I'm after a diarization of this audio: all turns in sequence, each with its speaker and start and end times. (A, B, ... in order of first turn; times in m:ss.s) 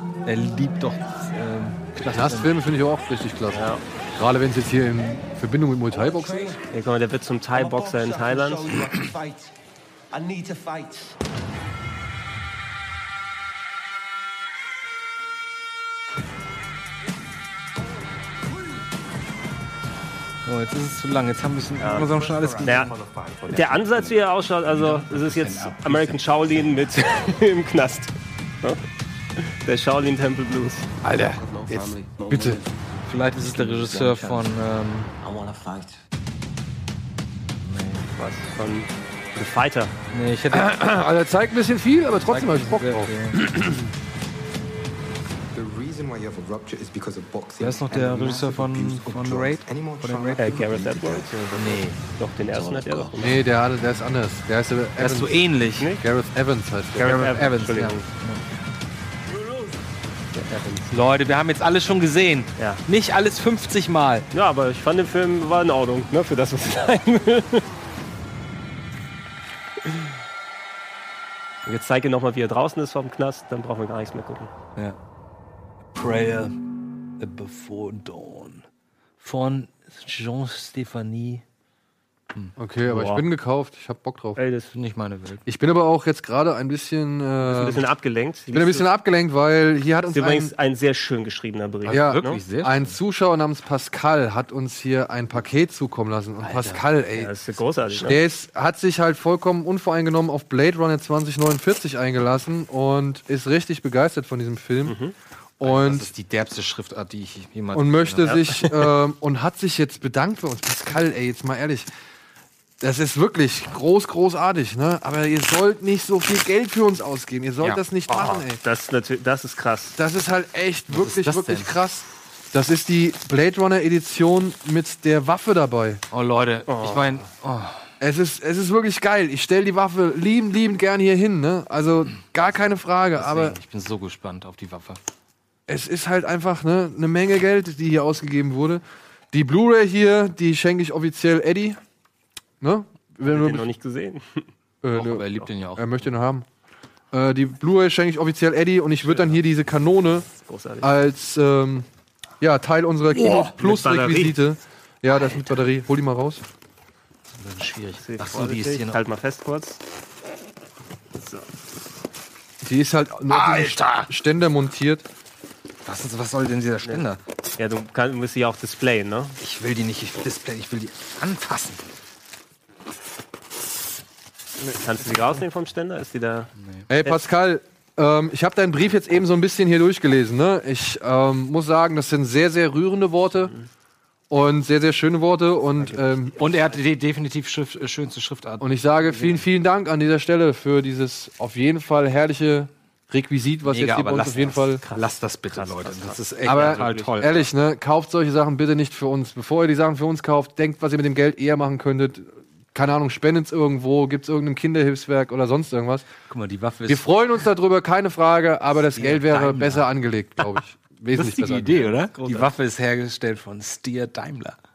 0:00.2-0:02.6 A
0:02.1-0:06.6 B
0:03.5-0:03.8 C
0:05.9-0:06.6 D
0:06.7-0:08.7 C
0:07.5-0:09.5 D
0:10.1-0:11.2 D
0:20.4-0:22.9 A
0:21.8-0:22.9 C
0:21.8-0:23.5 D
0:23.5-0:28.8 C
0:25.8-0:26.1 A
0:29.4-0:30.9 C
0:31.0-0:31.4 B
0:31.3-0:32.7 D
0:32.3-0:32.6 B
0:33.1-0:35.1 A
0:33.4-0:34.6 D
0:35.2-0:36.0 D
0:37.6-0:38.1 A
0:38.2-0:39.9 C
0:40.1-0:40.8 A
0:40.5-0:43.9 B
0:42.3-0:43.4 A
0:45.5-0:51.8 E
0:47.6-0:50.8 A
0:50.4-0:51.4 C
0:51.3-0:53.2 A
0:52.0-0:53.4 C
0:53.2-0:55.4 B
0:55.0-0:55.9 A
0:56.0-0:57.3 B
0:57.0-0:58.1 C
0:57.0-0:58.4 A
1:00.4-1:00.9 C
1:00.9-1:04.3 A
1:02.6-1:02.8 C
1:04.3-1:07.7 C
1:11.7-1:14.5 C
1:16.0-1:16.6 A
1:17.2-1:18.6 A
1:19.2-1:21.4 A
1:22.6-1:24.4 B
1:22.9-1:23.2 C
1:24.4-1:24.7 C
1:24.7-1:25.4 A
1:25.5-1:27.8 B
1:27.4-1:28.8 C
1:28.5-1:30.5 B
1:30.1-1:32.4 C
1:31.9-1:33.0 A
1:31.9-1:37.3 B
1:36.4-1:36.9 A
1:37.2-1:38.2 C
1:38.0-1:45.0 B
1:44.8-1:45.1 C
1:45.6-1:46.1 B
1:45.6-1:48.4 A
1:47.7-1:51.9 B
1:48.2-1:48.7 C
1:52.8-1:58.6 B
1:58.1-2:00.0 C
2:00.0-2:06.0 B
2:00.9-2:01.7 A
2:06.1-2:07.9 A
2:06.7-2:07.2 C
2:08.0-2:13.6 B
2:13.2-2:15.0 A
2:15.7-2:21.8 B
2:22.6-2:23.7 B
2:23.3-2:24.5 C
2:24.8-2:26.5 B
2:25.0-2:25.9 A
2:27.1-2:30.3 B
2:29.0-2:29.4 C
2:30.4-2:30.9 C
2:30.8-2:31.9 B
2:32.4-2:36.4 B
2:33.5-2:34.4 C
2:37.4-2:39.0 A
2:38.0-2:39.8 C
2:42.6-2:45.0 B
2:43.3-2:44.1 A
2:45.8-2:47.2 A
2:47.6-2:49.4 C
2:49.4-2:51.9 A
2:54.8-2:56.5 C
2:56.9-3:03.5 B
3:03.4-3:03.7 C
3:04.3-3:06.4 B
3:05.9-3:09.4 A
3:08.6-3:14.8 B
3:13.6-3:17.4 A
3:14.8-3:17.4 C
3:16.5-3:26.1 B
3:26.3-3:27.1 A
3:26.9-3:31.8 B
3:28.9-3:29.9 A
3:31.1-3:34.6 A
3:31.8-3:32.5 C